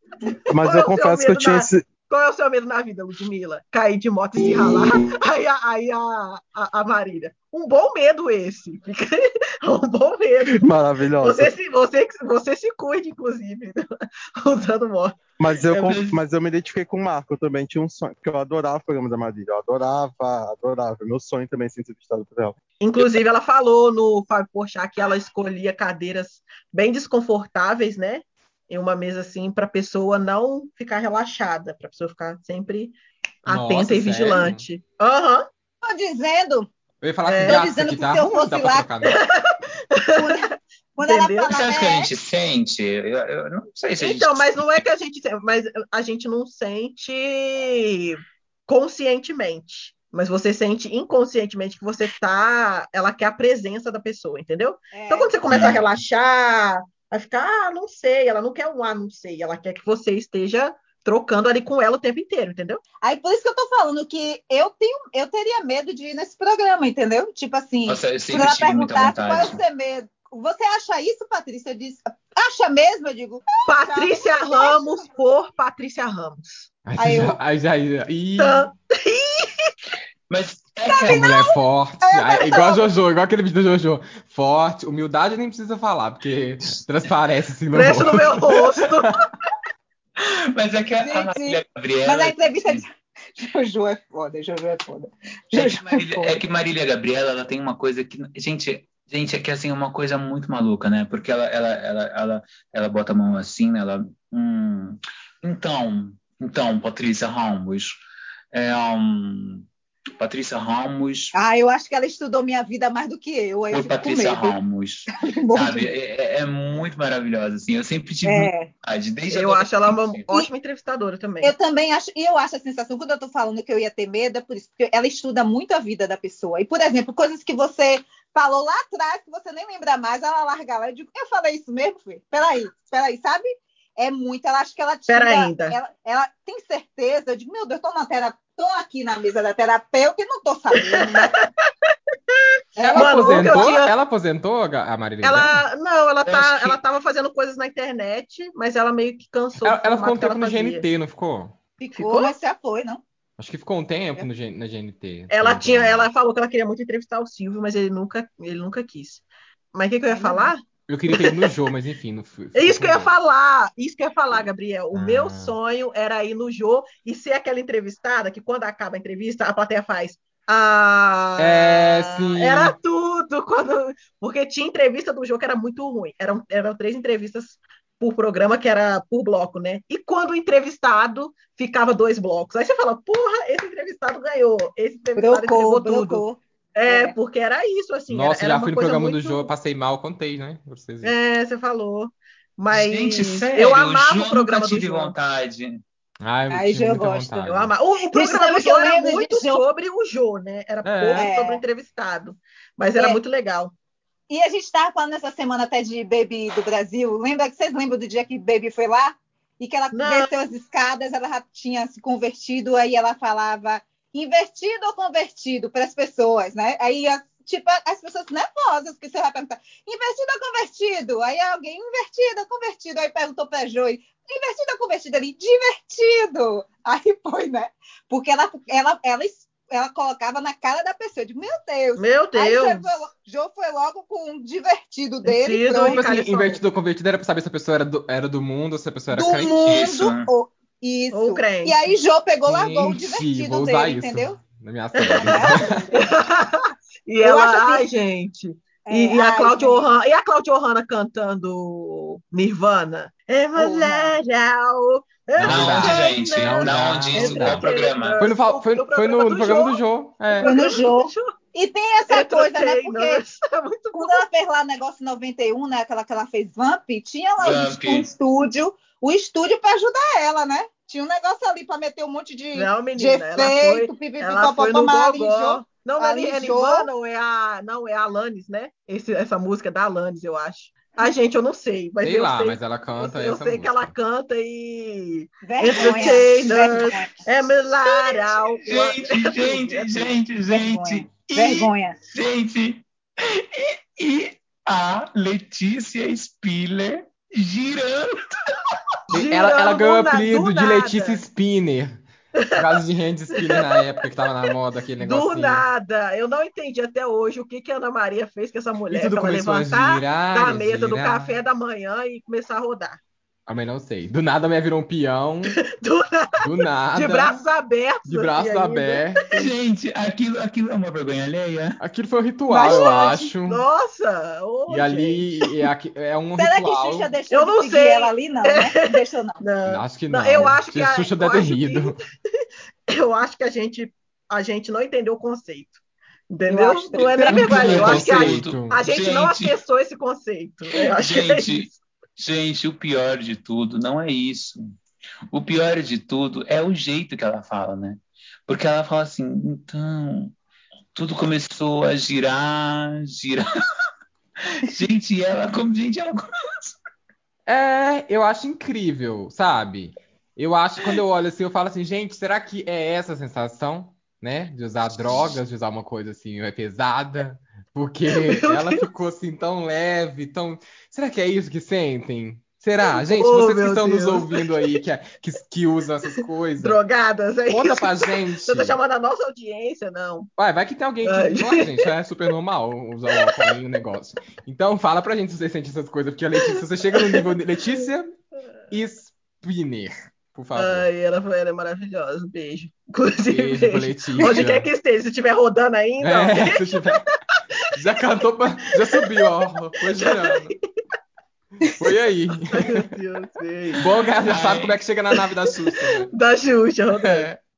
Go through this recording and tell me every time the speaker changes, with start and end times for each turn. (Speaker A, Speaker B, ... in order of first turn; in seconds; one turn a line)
Speaker A: 0.5-1.9
Speaker B: 0.5-10.7
Speaker C: 4.5-5.1
Speaker A: 10.5-11.5
Speaker B: 11.2-13.9
Speaker B: 14.4-16.2
Speaker A: 15.4-22.6
Speaker B: 22.8-35.5
Speaker D: 33.5-34.6
Speaker E: 35.8-36.7
Speaker D: 37.0-39.2
Speaker B: 37.3-37.6
Speaker E: 37.4-38.9
Speaker B: 39.0-40.5
Speaker E: 40.1-42.1
Speaker B: 41.0-41.5
Speaker C: 41.5-44.6
Speaker B: 44.0-62.8
Speaker E: 54.9-55.4
Speaker C: 55.5-55.8
Speaker E: 63.0-75.1
Speaker C: 67.9-69.6
Speaker B: 73.7-76.7
Speaker D: 76.8-78.7
Speaker E: 77.0-77.4
Speaker B: 78.4-79.7
Speaker C: 80.3-81.3
Speaker E: 80.9-82.8
Speaker D: 81.1-89.2
Speaker B: 87.7-89.2
Speaker C: 90.2-92.8
Speaker E: 91.0-96.4
Speaker C: 95.5-108.0
Speaker C: 108.5-109.7
Speaker C: 110.2-111.3
Speaker E: 111.3-114.6
Speaker C: 113.7-120.2
Speaker E: 115.1-115.9
Speaker E: 118.2-118.7
Speaker B: 119.3-121.5
Speaker E: 121.4-141.3
Speaker B: 135.1-135.8
Speaker B: 140.8-141.5
Speaker E: 142.8-143.8
Speaker D: 142.8-145.7
Speaker B: 142.9-143.9
Speaker B: 145.2-150.9
Speaker C: 146.2-146.8
Speaker D: 149.6-151.5
Speaker E: 151.8-153.0
Speaker B: 152.0-152.3
Speaker D: 153.4-156.1
Speaker B: 155.3-159.2
Speaker B: 159.7-161.6
Speaker E: 160.1-160.6
Speaker D: 160.9-163.1
Speaker B: 162.6-186.2
Speaker D: 164.9-165.6
Speaker D: 171.4-172.8
Speaker E: 185.2-187.2
Speaker B: 186.8-189.5
Speaker D: 188.1-191.1
Speaker B: 191.0-195.1
Speaker C: 192.7-195.8
Speaker D: 196.2-197.7
Speaker E: 196.5-197.5
Speaker B: 197.5-203.7
Speaker E: 198.1-199.6
Speaker D: 200.8-201.3
Speaker E: 201.2-201.6
Speaker E: 204.3-236.0
Speaker B: 209.9-210.3
Speaker B: 232.0-233.0
Speaker B: 235.3-236.6
Speaker D: 235.7-239.8
Speaker E: 239.1-244.4
Speaker C: 239.4-240.3
Speaker B: 241.1-241.8
Speaker D: 242.5-245.9
Speaker B: 245.0-261.3
Speaker E: 245.2-246.0
Speaker E: 247.2-247.8
Speaker E: 248.9-249.9
Speaker E: 253.6-254.2
Speaker D: 255.4-260.5
Speaker C: 255.4-258.2
Speaker E: 260.4-263.2
Speaker B: 262.1-264.2
Speaker E: 263.9-276.9
Speaker C: 267.4-268.1
Speaker B: 272.6-290.1
Speaker D: 282.0-283.9
Speaker E: 285.4-287.2
Speaker C: 288.0-298.8
Speaker E: 290.5-292.0
Speaker B: 299.1-301.2
Speaker D: 299.1-305.7
Speaker B: 302.4-302.8
Speaker B: 303.4-304.5
Speaker B: 305.0-313.0
Speaker D: 308.9-311.4
Speaker D: 313.5-315.6
Speaker B: 315.6-319.5
Speaker D: 316.4-317.4
Speaker D: 318.1-319.3
Speaker C: 319.3-321.8
Speaker D: 321.8-323.6
Speaker E: 322.5-323.3
Speaker B: 323.5-325.6
Speaker D: 324.7-327.2
Speaker E: 326.4-329.4
Speaker B: 327.3-332.0
Speaker D: 329.6-332.0
Speaker B: 332.9-341.7
Speaker E: 336.5-337.1
Speaker D: 337.0-338.8
Speaker C: 337.3-339.6
Speaker C: 340.8-344.7
Speaker C: 345.3-350.3
Speaker C: 350.9-353.5
Speaker C: 354.4-356.7
Speaker D: 357.5-376.8
Speaker B: 368.1-368.8
Speaker B: 372.8-374.8
Speaker B: 376.6-380.3
Speaker D: 377.5-378.8
Speaker D: 380.4-388.2
Speaker B: 381.0-381.9
Speaker B: 383.2-383.5
Speaker B: 387.0-387.3
Speaker D: 388.7-390.9
Speaker B: 390.6-397.0
Speaker D: 393.3-394.7
Speaker D: 396.0-397.0
Speaker D: 397.7-400.6
Speaker B: 398.8-400.6
Speaker D: 401.6-403.0
Speaker B: 401.6-401.9
Speaker B: 402.5-403.9
Speaker D: 403.7-406.1
Speaker C: 404.2-404.8
Speaker B: 405.7-407.3
Speaker D: 407.0-407.3